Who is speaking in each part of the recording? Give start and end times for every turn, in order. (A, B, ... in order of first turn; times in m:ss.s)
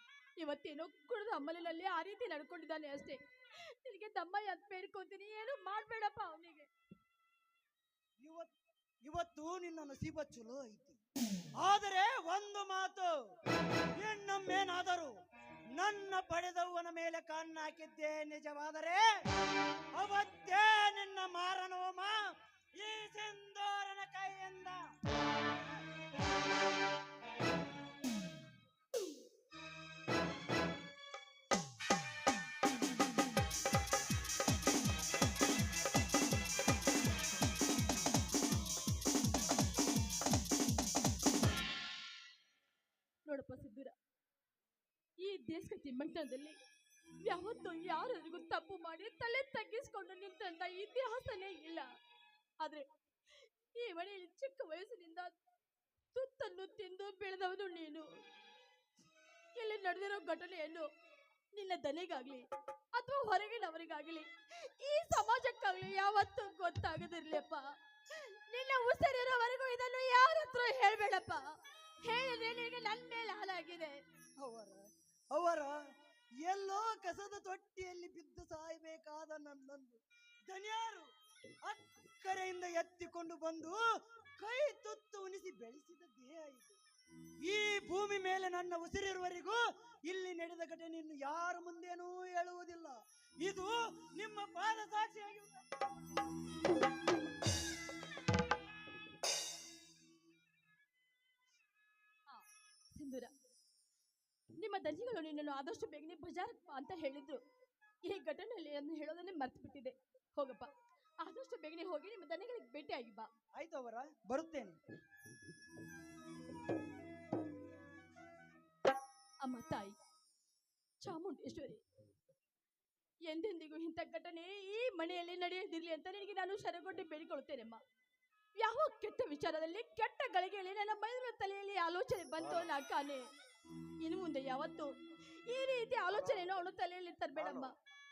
0:00.4-0:06.7 A
0:08.2-0:08.5 B
0:09.0-0:11.0 B
0:11.6-0:13.1 B
0:14.0-0:15.1 B
0:15.7-0:19.0 B
0:19.9-0:22.2 B
0:22.8-0:24.8 B
0:43.2-0:43.9 A
0:45.2-0:46.6 A
0:47.2-0:51.8 A
0:52.6-0:52.8 A
0:53.7-0:55.3 A
0:56.1-0:58.1 A
0:59.6-1:00.9 A
1:01.5-1:14.0 A
1:14.4-1:15.8 B
1:16.4-1:21.1 B
1:21.6-1:23.8 B
1:24.4-1:26.7 B
1:27.4-1:35.7 B
1:42.3-1:43.3 A
1:44.6-1:47.4 A
1:48.0-1:50.7 A
1:51.2-1:53.3 A
1:53.6-1:54.8 B
1:59.4-2:00.0 A
2:01.0-2:01.8 A
2:03.3-2:07.8 A
2:08.6-2:13.2 A
2:14.0-2:17.7 A